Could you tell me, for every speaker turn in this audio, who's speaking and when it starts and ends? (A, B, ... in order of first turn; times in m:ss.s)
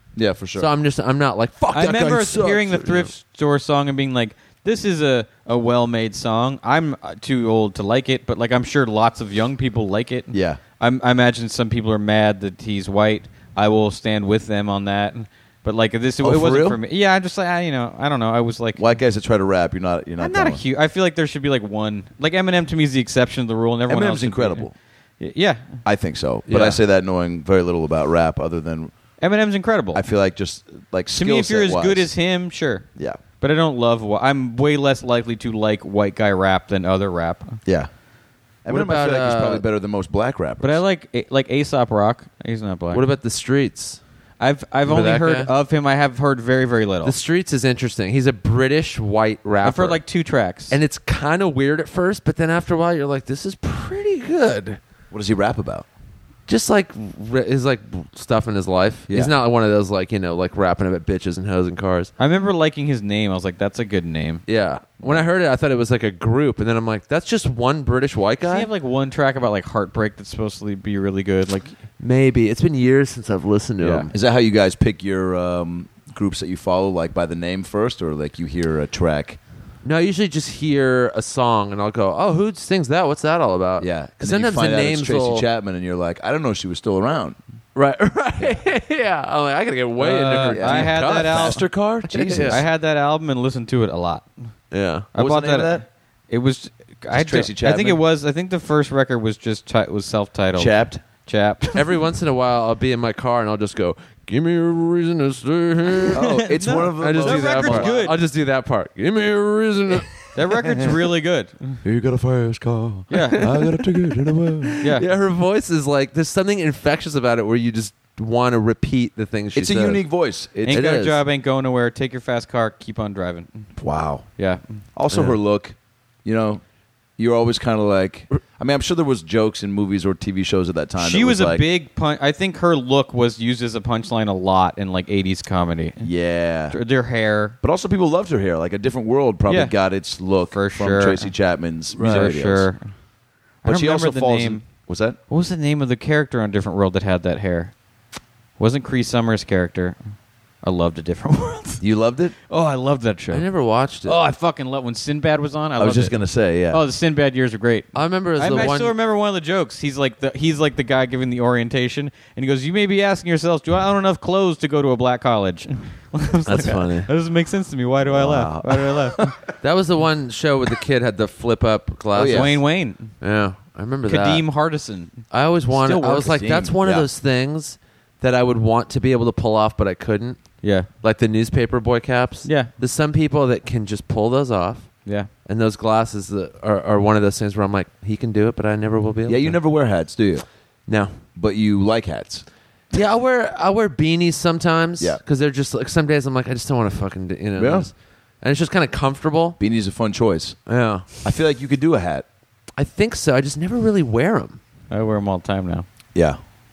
0:00.2-0:00.7 A
0:00.6-0:03.1 B
0:01.7-0:18.8 C
0:10.3-0:10.6 A
0:16.2-0:16.8 A
0:18.8-0:20.6 A
0:20.2-0:24.7 C
0:23.9-0:24.7 A
0:25.2-0:25.8 C
0:25.8-0:28.9 A
0:26.5-0:26.8 B
0:29.2-0:30.1 C
0:30.0-0:32.1 A
0:31.1-0:32.9 C
0:33.4-0:37.6 C
0:38.6-0:40.8 A
0:38.7-0:39.6 B
0:40.6-0:43.0 C
0:42.9-0:44.0 B
0:44.4-0:47.1 C
0:44.9-0:45.5 B
0:47.0-0:50.0 B
0:49.6-0:50.8 C
0:50.7-0:54.8 B
0:55.1-0:55.9 A
0:56.5-1:02.1 B
1:02.2-1:04.4 C
1:04.5-1:08.7 B
1:08.4-1:11.7 C
1:12.0-1:14.1 B
1:13.8-1:19.4 A
1:19.8-1:25.5 B
1:23.8-1:27.4 A
1:27.8-1:32.6 B
1:30.0-1:31.6 C
1:30.5-1:32.6 A
1:32.3-1:34.3 C
1:34.7-1:35.1 B
1:35.2-1:35.9 A
1:35.2-1:41.8 C
1:37.1-1:38.0 A
1:40.6-1:41.0 A
1:41.8-1:46.3 B
1:46.1-1:48.1 A
1:46.1-1:48.2 C
1:47.0-1:50.1 B
1:50.3-1:51.8 C
1:50.7-1:51.0 A
1:51.8-1:54.8 A
1:53.1-1:53.5 C
1:53.2-2:00.0 B
1:54.8-1:55.0 C
1:59.6-2:00.9 A
2:00.7-2:03.7 C
2:00.7-2:01.2 B
2:03.8-2:04.2 A
2:05.0-2:06.6 A
2:05.1-2:05.4 B
2:07.2-2:11.6 A
2:11.0-2:16.1 C
2:16.0-2:16.8 A
2:16.7-2:17.6 C
2:17.6-2:22.7 A
2:19.5-2:19.7 C
2:20.5-2:21.3 C
2:22.0-2:22.8 C
2:22.0-2:22.3 B
2:23.6-2:24.6 C
2:23.7-2:25.2 A
2:25.3-2:27.7 C
2:28.6-2:30.0 C
2:30.6-2:31.8 C
2:31.8-2:32.4 A
2:32.5-2:33.5 C
2:33.3-2:34.2 B
2:34.0-2:49.3 C
2:35.8-2:36.8 A
2:37.9-2:38.9 B
2:46.5-2:47.1 B
2:48.0-2:49.5 A
2:49.6-2:52.6 B
2:52.1-2:52.5 A
2:52.3-2:53.1 C
2:53.2-2:54.5 B
2:54.1-2:55.2 C
2:55.3-3:00.4 B
2:55.7-2:57.1 A
3:00.6-3:00.9 C
3:01.0-3:04.9 B
3:02.4-3:02.7 C
3:05.5-3:09.6 B
3:09.3-3:10.4 A
3:10.9-3:11.2 B
3:11.4-3:12.4 A
3:12.9-3:19.6 B
3:17.6-3:17.9 A
3:19.6-3:20.6 A
3:20.7-3:21.1 B
3:21.2-3:22.2 A
3:22.8-3:24.6 B
3:24.9-3:25.9 C